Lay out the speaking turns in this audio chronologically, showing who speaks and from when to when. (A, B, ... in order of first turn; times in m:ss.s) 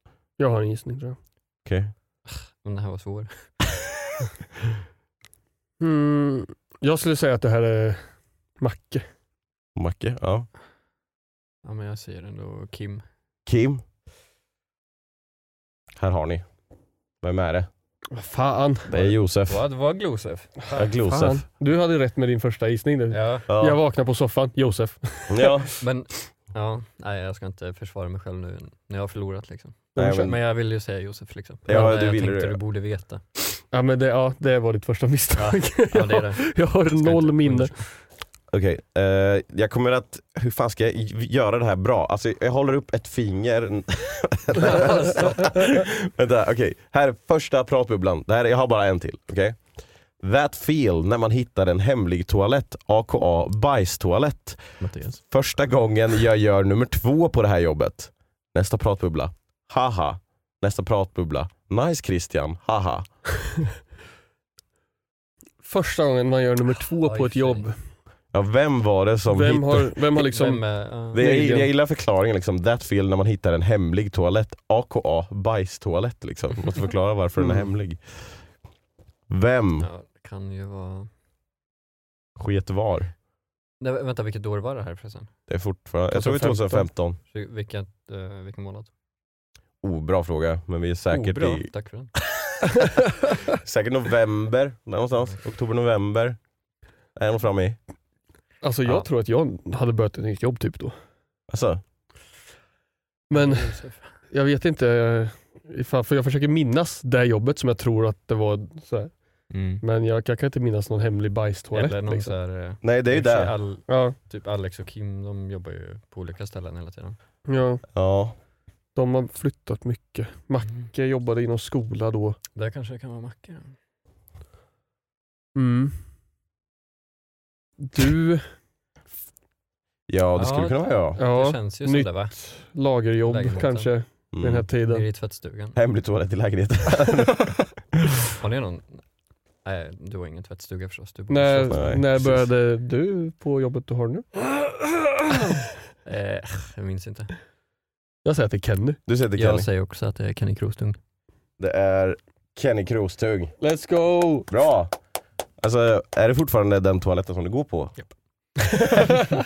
0:00.4-0:01.2 A
0:01.6-0:01.9 B
0:02.3-0:03.5 C
0:05.8-0:08.0 A
0:08.6-0:09.1 A
0:09.8-0:10.5 B
0:11.6-0:13.0 C
0:13.5-0:13.8 B
0:16.0-0:16.4 B
0:17.2-0:17.7 B
0:18.1-0:18.9 A
0:18.9-0:19.6 B
0:19.0-0:20.9 C
0:20.8-0:21.4 B
0:21.1-0:25.5 A
0:23.1-0:23.5 C
0:23.5-0:23.8 B
0:25.3-0:25.7 B
0:25.8-0:33.2 C
0:30.0-0:30.3 A
0:30.0-0:30.4 B
0:31.7-0:32.6 B
0:33.7-0:37.7 A
0:35.4-0:37.9 C
0:38.5-0:49.6 B
0:44.6-0:45.6 C
0:50.2-1:03.1 B
0:54.8-0:55.2 C
1:05.6-1:07.8 A
1:07.0-1:07.7 C
1:08.3-1:09.9 B
1:09.3-1:11.7 A
1:10.1-1:11.2 C
1:11.1-1:18.4 B
1:19.3-1:19.9 B
1:19.8-1:21.1 C
1:22.4-1:23.1 B
1:23.8-1:25.3 C
1:25.5-1:27.2 B
1:26.1-1:26.9 A
1:27.3-1:28.9 C
1:29.8-1:31.7 B
1:31.1-1:32.1 C
1:33.5-1:36.4 B
1:37.2-1:37.8 B
1:38.6-1:41.0 A
1:41.5-1:41.8 B
1:43.3-1:44.1 C
1:43.3-1:49.2 A
1:49.5-1:49.8 C
1:49.8-1:52.3 A
1:51.7-1:57.2 C
1:52.8-1:53.6 B
1:53.9-1:54.2 A
1:57.5-1:57.8 A
1:57.9-1:58.4 B
1:59.0-2:02.4 A
2:00.6-2:00.9 C
2:02.6-2:03.8 C
2:05.6-2:06.0 A
2:07.8-2:08.5 A
2:10.1-2:11.2 B
2:10.4-2:12.4 C
2:11.2-2:15.0 A
2:13.2-2:13.9 C
2:14.3-2:14.7 B
2:14.9-2:15.8 C
2:15.8-2:17.6 B
2:18.4-2:19.1 C
2:19.6-2:21.8 C
2:21.3-2:24.9 A
2:21.7-2:22.4 B
2:26.0-2:27.3 C
2:28.2-2:29.0 A
2:29.1-2:29.7 B
2:29.4-2:31.0 C
2:31.6-2:33.5 B
2:33.6-2:34.5 A
2:34.5-2:34.9 B
2:35.6-2:38.0 B